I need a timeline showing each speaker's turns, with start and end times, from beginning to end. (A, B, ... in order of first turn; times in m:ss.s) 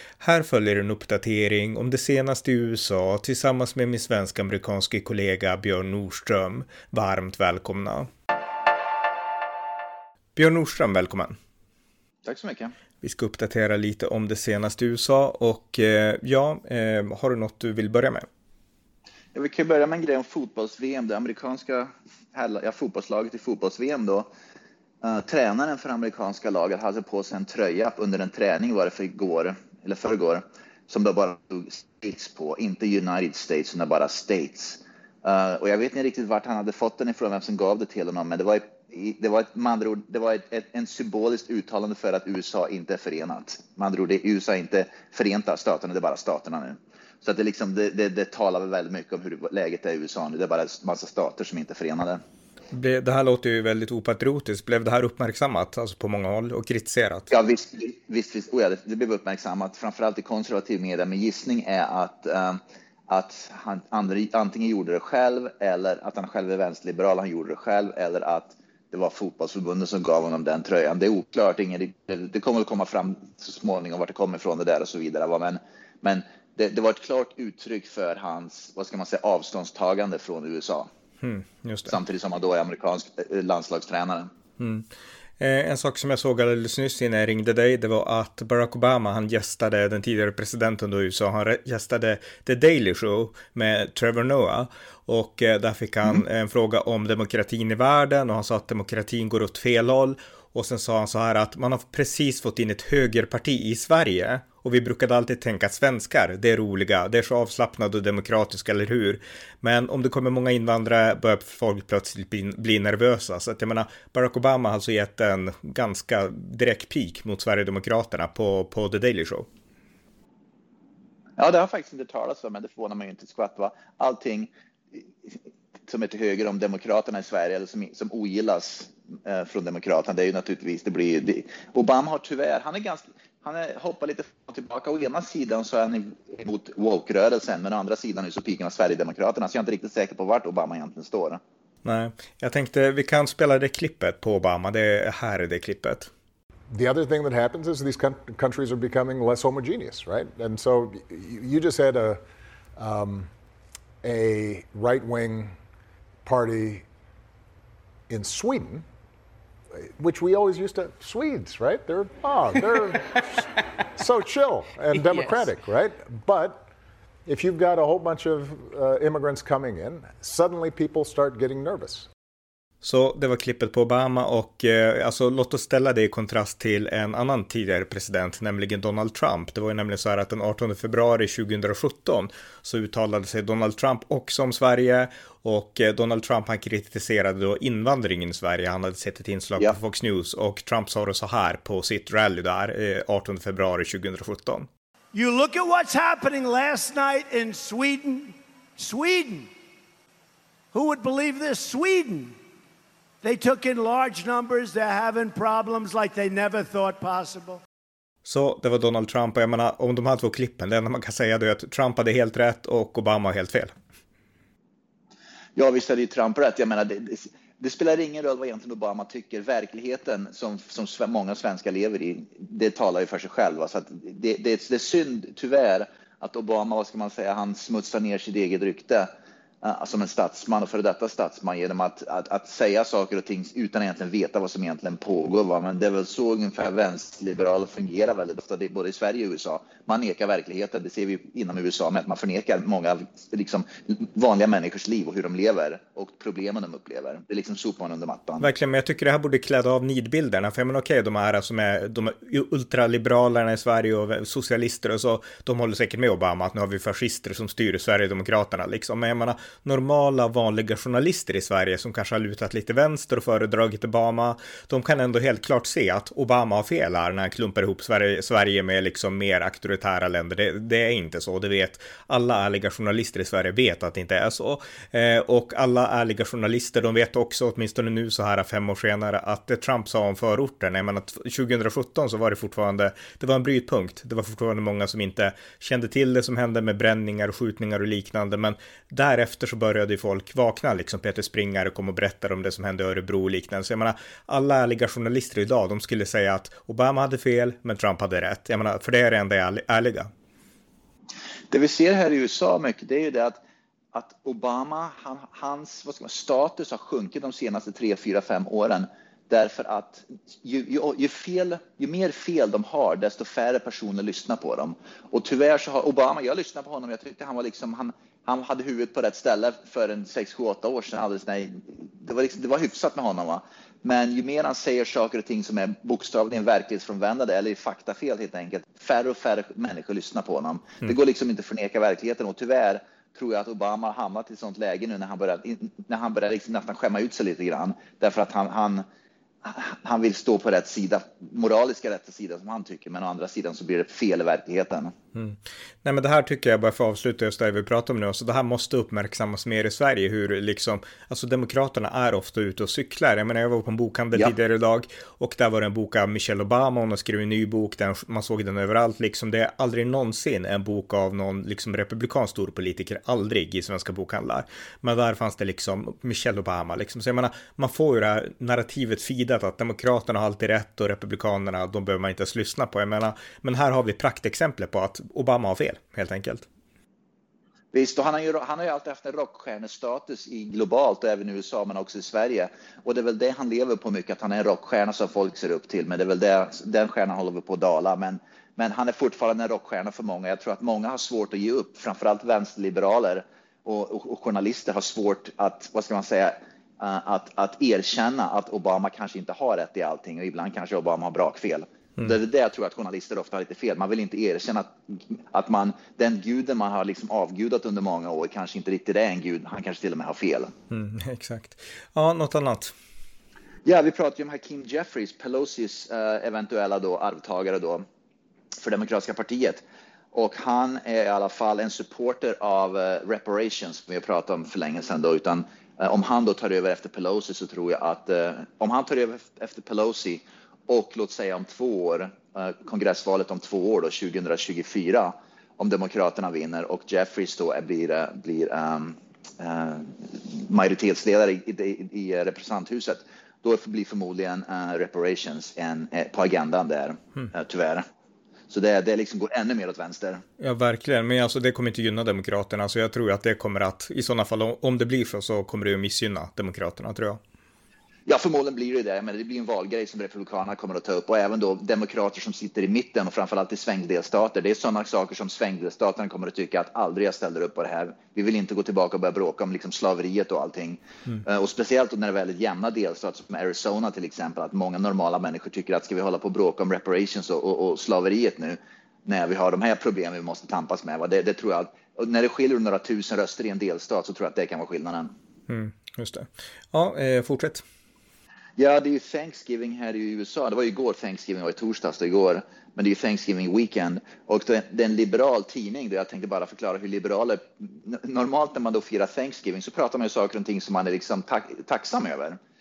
0:00.2-0:08.1 A
0:10.4-0:11.4 A
0:12.2-0:12.7 B
0:13.0-0:18.2 A
0:19.3-0:24.3 B
0:25.0-0:52.2 B
0:52.7-0:57.3 A
0:57.3-1:20.9 B
1:21.2-1:22.0 A
1:21.9-1:24.3 B
1:24.6-1:24.8 A
1:25.4-1:59.5 A
2:01.4-2:21.4 B
2:21.8-2:26.1 A
2:26.7-2:32.2 C
2:32.8-2:33.3 C
2:34.0-2:35.6 C
2:36.2-2:36.8 C
2:38.1-2:38.8 C
2:39.7-2:46.7 C
2:47.2-2:52.1 C
2:52.8-3:14.7 A
3:15.1-3:19.5 D
3:20.7-3:22.4 D
3:23.2-3:27.6 D
3:28.2-3:33.7 A
3:35.6-3:49.1 B
3:49.6-4:08.5 B
4:08.4-5:00.1 A
5:01.5-5:03.4 B
5:03.9-5:38.8 B
5:39.4-5:44.9 B
5:45.1-6:16.4 A
6:17.7-6:50.5 B
6:50.7-6:52.7 A
6:53.6-6:57.8 B
6:58.6-7:27.8 B
7:28.5-7:30.2 B
7:30.4-7:37.2 A
7:38.1-8:05.1 B
8:05.5-8:07.6 A
8:08.6-8:22.4 B